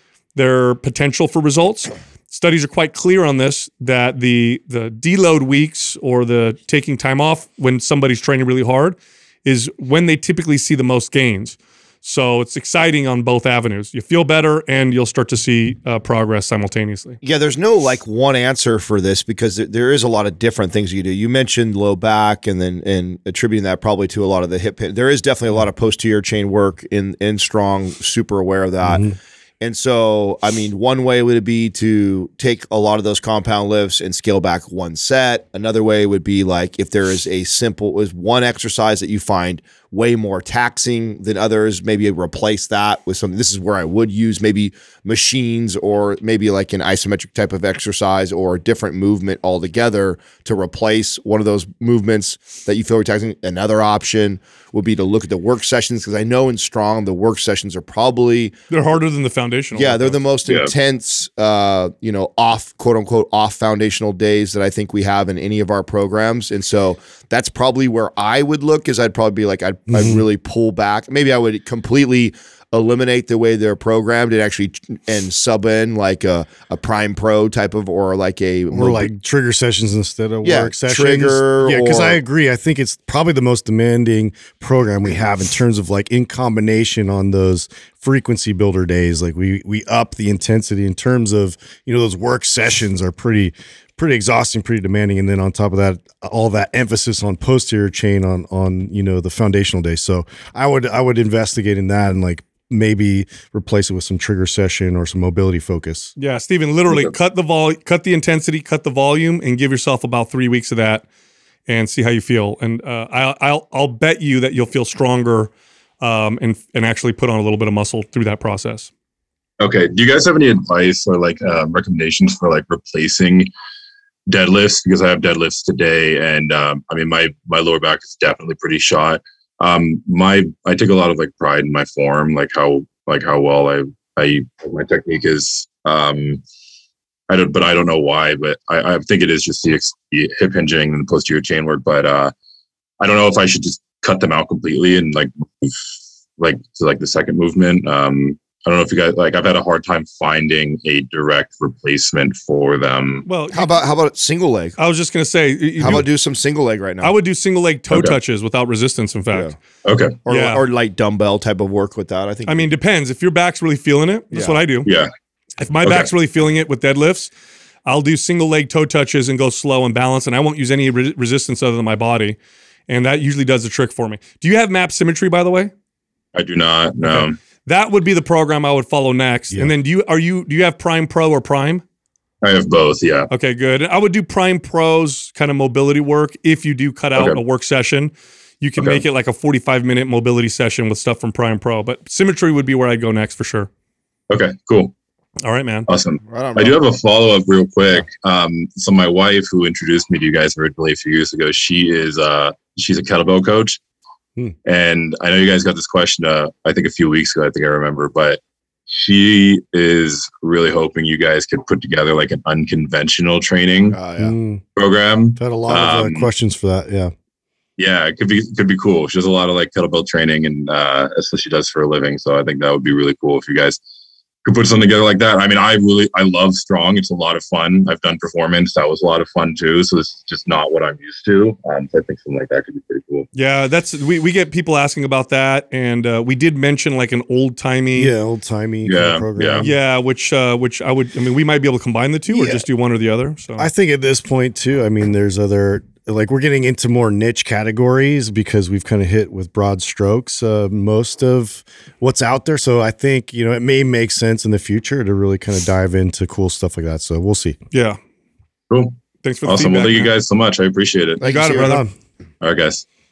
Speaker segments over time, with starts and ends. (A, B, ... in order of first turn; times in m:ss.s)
0:00.3-0:17.2 A
0:17.2-0:58.5 B
0:28.8-0:29.1 C
0:58.7-1:00.2 A
0:59.7-1:19.1 B
1:00.4-1:00.7 D
1:09.9-1:10.2 C
1:18.7-1:46.1 C
1:20.4-1:22.2 B
1:46.2-1:51.0 A
1:51.7-1:58.9 A
1:59.6-2:03.5 D
2:04.3-2:16.4 D
2:17.3-2:22.3 D
2:23.0-2:25.8 D
2:26.4-2:33.3 D
2:33.2-2:33.9 A
2:33.5-2:34.8 B
2:34.8-2:36.1 A
2:35.8-2:37.1 B
2:37.0-2:39.5 A
2:39.8-2:40.2 D
2:40.2-2:42.7 B
2:40.3-2:40.6 A
2:42.4-2:44.9 A
2:44.3-2:44.6 B
2:44.8-2:45.1 D
2:45.6-2:47.3 A
2:45.8-2:46.1 D
2:47.8-2:52.4 A
2:52.9-2:55.7 A
2:56.3-2:57.4 D
2:57.1-3:01.8 A
3:02.4-3:03.3 D
3:03.3-3:13.7 A
3:07.1-3:07.4 D
3:08.8-3:09.0 D
3:14.3-3:14.9 D
3:15.4-3:15.9 A
3:15.9-3:23.8 D
3:16.2-3:16.8 B
3:24.6-3:34.0 D
3:33.9-3:34.3 B
3:34.2-3:34.6 C
3:34.8-3:36.3 D
3:35.4-3:37.1 C
3:37.8-3:43.8 D
3:44.4-3:53.3 D
3:53.3-3:58.1 A
3:57.9-3:59.7 C
3:58.8-3:59.7 D
3:59.6-4:03.7 A
4:02.3-4:02.6 B
4:03.6-4:17.6 C
4:17.7-4:18.0 A
4:18.7-4:21.3 D
4:19.2-4:20.1 A
4:21.2-4:21.8 B
4:21.2-4:21.8 A
4:21.6-4:21.9 C
4:22.4-4:22.8 D